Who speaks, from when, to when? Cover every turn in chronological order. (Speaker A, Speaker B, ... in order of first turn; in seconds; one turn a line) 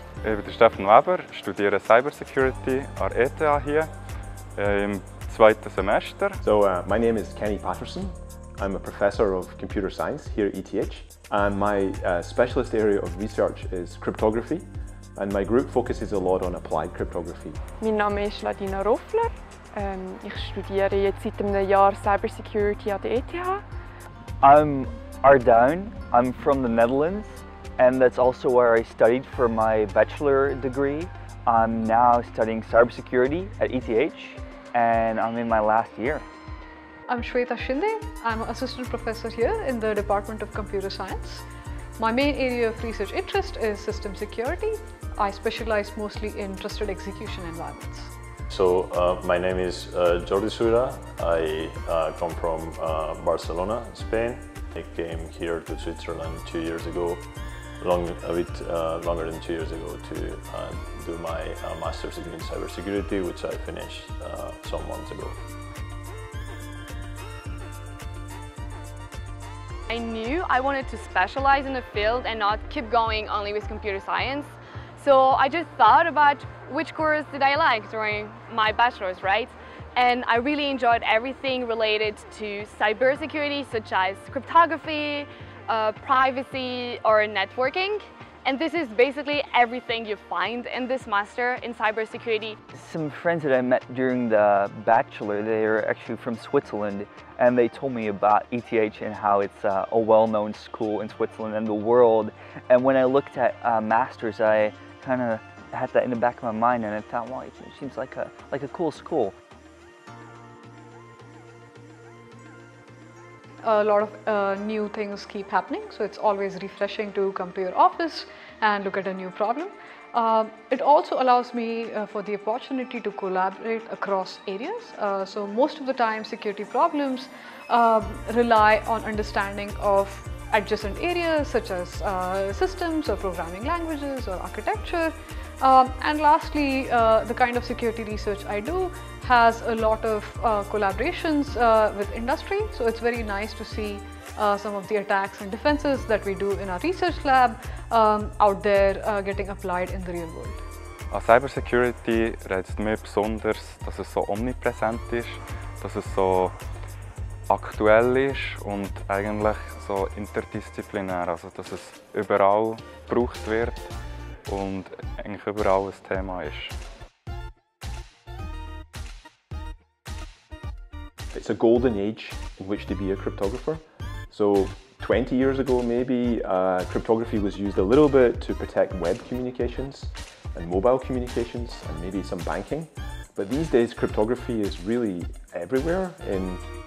Speaker A: 0.2-3.9
Speaker A: 4.6-6.4
Speaker B: 6.4-17.6
Speaker C: 17.8-23.6
Speaker D: 24.4-36.2
Speaker E: 37.1-41.4
Speaker E: 42.0-48.1
Speaker F: 48.5-57.2
Speaker F: 57.8-65.4
Speaker G: 69.9-92.6
Speaker D: 92.7-109.3
Speaker E: 113.6-150.6
Speaker A: 151.1-156.5
Speaker A: 157.5-163.9
Speaker A: 164.5-166.7
Speaker B: 171.3-186.6